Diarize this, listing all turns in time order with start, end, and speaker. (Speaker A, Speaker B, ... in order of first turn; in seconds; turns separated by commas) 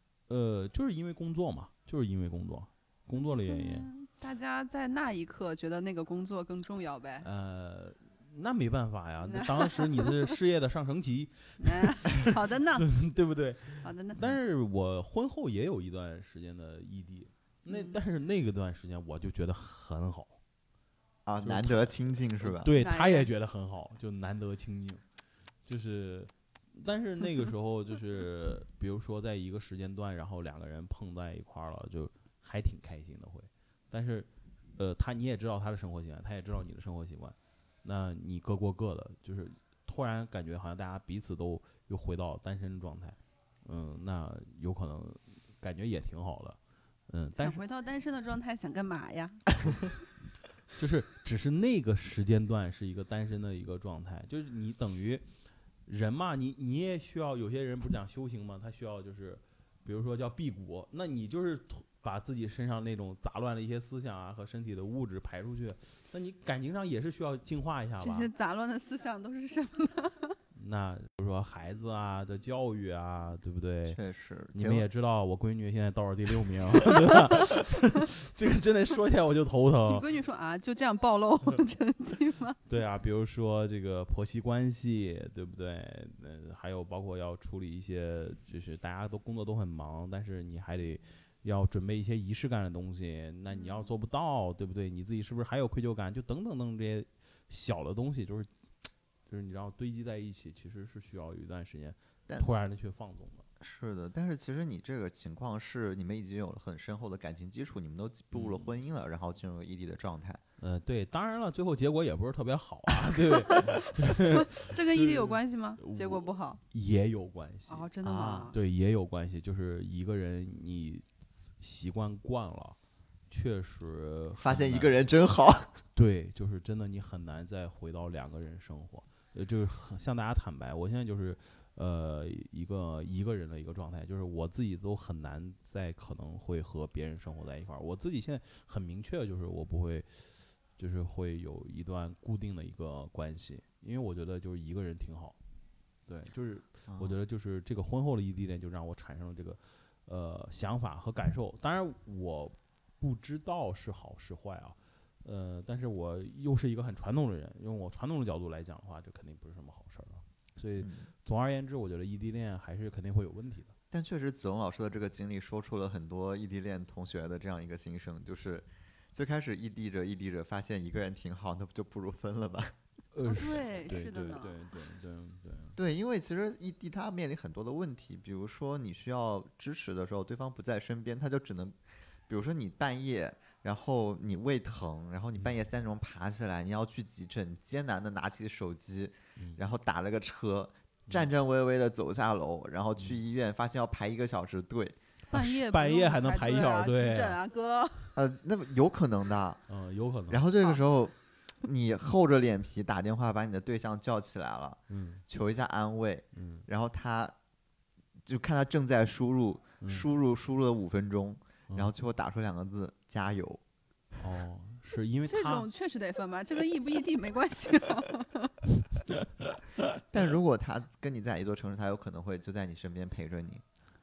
Speaker A: 0.3-3.9, Speaker B: 3.4-7.2, Speaker A: 7.2-20.4, Speaker B: 9.2-10.3, Speaker B: 11.6-12.9, Speaker B: 13.8-14.2, Speaker B: 17.7-18.0, Speaker C: 21.2-22.7, Speaker A: 21.4-25.0, Speaker B: 22.7-23.3, Speaker A: 25.6-46.6, Speaker A: 47.1-47.6, Speaker B: 47.3-49.9, Speaker A: 50.8-55.2, Speaker A: 55.9-68.3, Speaker B: 68.0-70.3, Speaker A: 70.5-74.0, Speaker C: 73.8-74.8, Speaker A: 74.5-80.1, Speaker B: 79.9-82.6, Speaker A: 82.7-98.5, Speaker B: 93.5-93.9, Speaker A: 99.3-103.4, Speaker C: 103.6-110.4, Speaker A: 108.3-108.7, Speaker A: 110.6-117.9, Speaker B: 113.2-116.6, Speaker B: 117.7-118.6, Speaker C: 118.0-118.5, Speaker A: 118.5-121.0, Speaker A: 121.6-122.8, Speaker A: 123.3-124.9, Speaker C: 124.4-125.8, Speaker A: 125.9-145.4, Speaker A: 146.1-163.7, Speaker C: 146.9-147.2, Speaker C: 160.8-161.1, Speaker C: 163.9-172.7, Speaker A: 173.1-175.8, Speaker B: 173.2-174.6, Speaker C: 175.7-181.8, Speaker C: 182.3-195.0, Speaker B: 195.3-198.2, Speaker A: 195.3-197.4, Speaker C: 198.2-199.6, Speaker A: 199.7-200.4, Speaker C: 200.3-207.3, Speaker A: 204.9-205.2, Speaker A: 206.3-206.7, Speaker C: 208.2-213.6, Speaker A: 209.8-210.1, Speaker A: 214.2-215.7, Speaker B: 215.3-218.6, Speaker A: 219.4-219.8, Speaker C: 220.1-223.6